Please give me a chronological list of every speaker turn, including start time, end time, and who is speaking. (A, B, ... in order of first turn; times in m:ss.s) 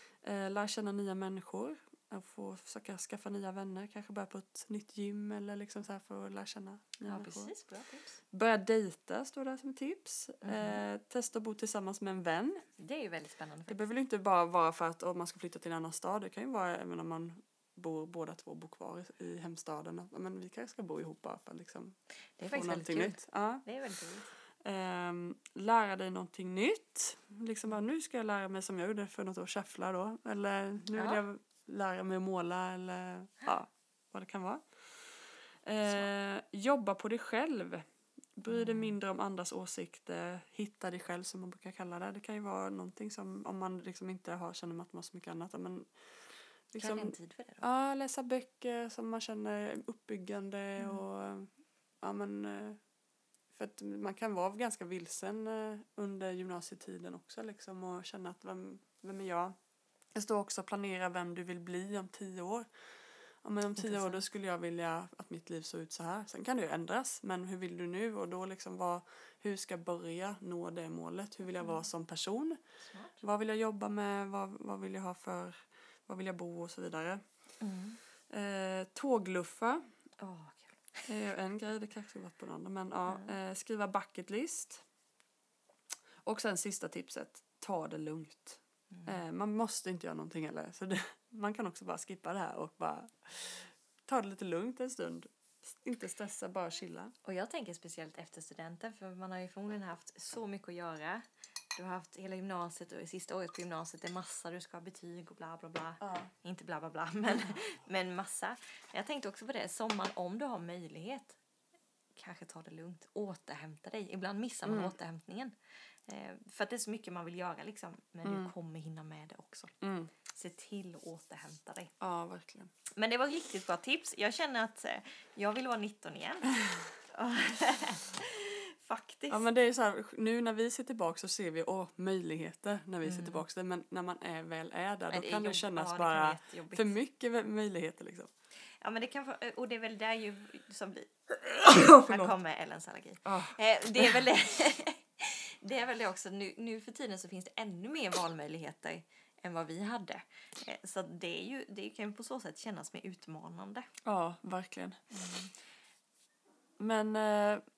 0:00.2-0:07.5 A
0:07.0-0:08.2 B
0:08.3-0:12.7 A
0:10.4-0:10.8 B
0:12.8-0:13.8 B
0:13.7-0:23.6 A
0:22.4-0:24.3 B
0:24.6-0:35.0 A
0:31.0-0:31.2 B
0:35.6-0:37.8 A
0:38.4-0:45.9 A
0:38.5-0:39.0 B
0:46.7-0:51.5 A
0:46.8-0:47.6 B
0:50.8-0:51.0 B
0:52.0-0:52.8 A
0:53.5-0:59.6 A
1:00.2-1:02.7 A
1:03.4-1:12.6 A
1:03.8-1:04.2 B
1:12.8-1:13.2 B
1:13.2-1:17.2 A
1:17.6-1:18.0 B
1:18.3-1:19.8 A
1:20.2-1:21.1 B
1:21.1-1:24.8 A
1:23.1-1:23.4 B
1:26.2-1:37.1 A
1:28.9-1:29.2 B
1:37.2-1:41.2 B
1:41.8-1:51.4 B
1:46.0-1:46.3 A
1:52.2-1:55.5 B
1:54.7-1:54.9 A
1:56.1-1:59.8 B
1:58.2-1:58.5 A
1:59.8-2:00.1 A
2:00.3-2:01.9 B
2:02.0-2:02.7 A
2:03.0-2:06.6 B
2:07.1-2:09.4 B
2:09.3-2:18.3 A
2:13.0-2:13.4 B
2:15.1-2:16.9 B
2:18.8-2:33.9 B
2:21.6-2:22.3 A
2:23.3-2:24.2 A
2:34.0-2:35.0 A
2:35.1-2:35.5 B
2:36.8-2:37.6 A